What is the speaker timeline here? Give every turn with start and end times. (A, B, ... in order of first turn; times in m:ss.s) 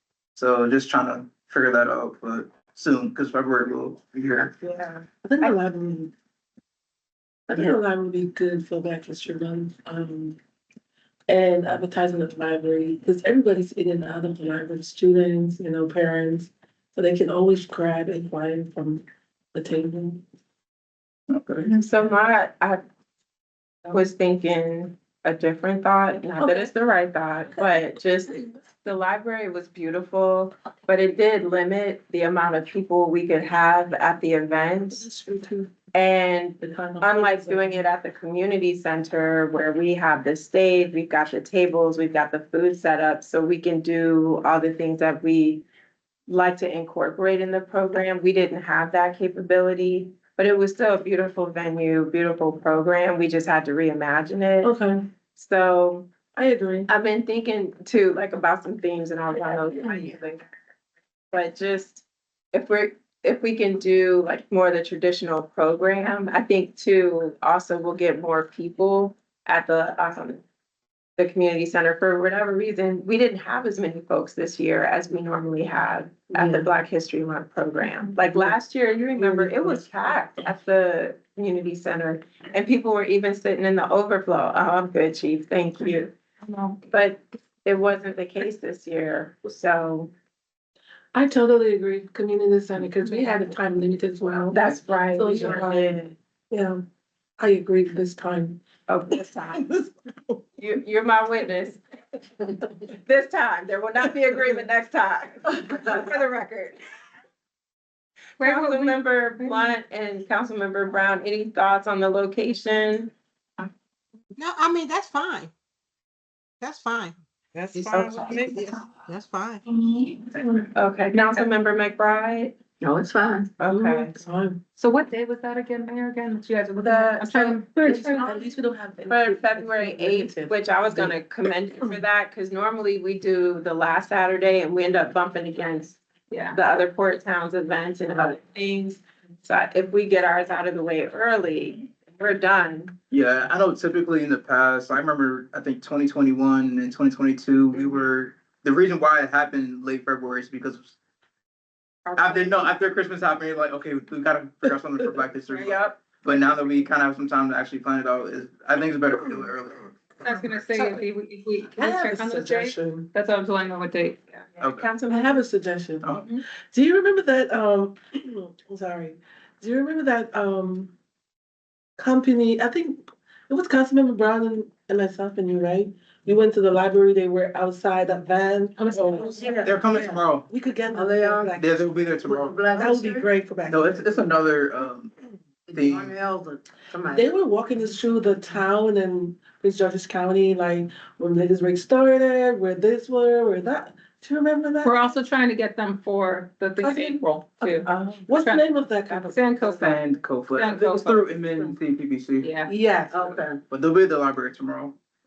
0:00.4-0:04.5 A
0:04.6-0:05.6 B
0:05.2-0:06.1 C
0:07.5-0:10.4 C
0:11.3-0:20.2 C
0:21.3-0:21.9 A
0:21.7-0:22.8 B
0:23.9-0:35.1 B
0:26.4-0:26.7 C
0:34.9-0:35.7 C
0:35.9-0:45.7 B
0:36.6-0:37.8 C
0:46.3-0:54.8 B
0:54.6-0:55.0 C
0:55.3-0:56.1 B
0:56.4-0:56.9 C
0:56.9-1:00.5 B
1:01.3-1:10.4 B
1:11.2-1:26.2 B
1:16.3-1:16.7 C
1:19.2-1:19.9 C
1:26.4-1:26.8 D
1:26.9-1:30.1 B
1:31.1-1:36.8 C
1:34.5-1:36.2 B
1:37.4-1:38.6 C
1:38.9-1:39.6 B
1:39.5-1:39.9 C
1:40.6-1:41.8 B
1:42.5-1:46.8 B
1:48.4-1:49.8 D
1:48.4-1:53.1 B
1:54.4-1:55.5 E
1:56.6-1:57.2 E
1:57.6-1:58.7 F
1:57.7-1:59.6 E
1:57.9-1:58.5 B
2:00.7-2:02.6 B
2:01.1-2:01.5 D
2:02.8-2:03.5 D
2:03.6-2:04.1 B
2:03.7-2:04.6 C
2:04.8-2:08.4 D
2:06.8-2:07.6 B
2:07.7-2:11.2 C
2:09.1-2:16.0 B
2:16.3-2:16.6 D
2:16.5-2:23.0 B
2:23.1-2:31.0 A
2:27.7-2:28.0 B
2:32.0-2:32.7 B
2:32.2-2:39.9 A
2:35.5-2:36.4 B
2:40.2-2:44.4 D
2:40.7-2:41.0 E
2:41.8-2:43.1 C
2:44.6-2:45.4 B
2:44.6-2:44.9 A
2:45.1-2:50.9 C
2:46.0-2:46.3 A
2:52.0-3:01.8 C
2:58.9-3:00.2 F
2:59.6-3:00.5 A
3:00.9-3:01.6 F
3:01.6-3:02.6 A
3:02.2-3:03.3 F
3:02.7-3:04.2 C
3:03.7-3:05.1 A
3:05.7-3:07.2 F
3:05.7-3:06.1 A
3:07.1-3:15.2 C
3:14.8-3:21.3 D
3:16.8-3:19.9 C
3:19.7-3:22.5 A
3:22.4-3:22.7 D
3:22.7-3:23.5 C
3:23.2-3:23.4 F
3:23.7-3:25.0 A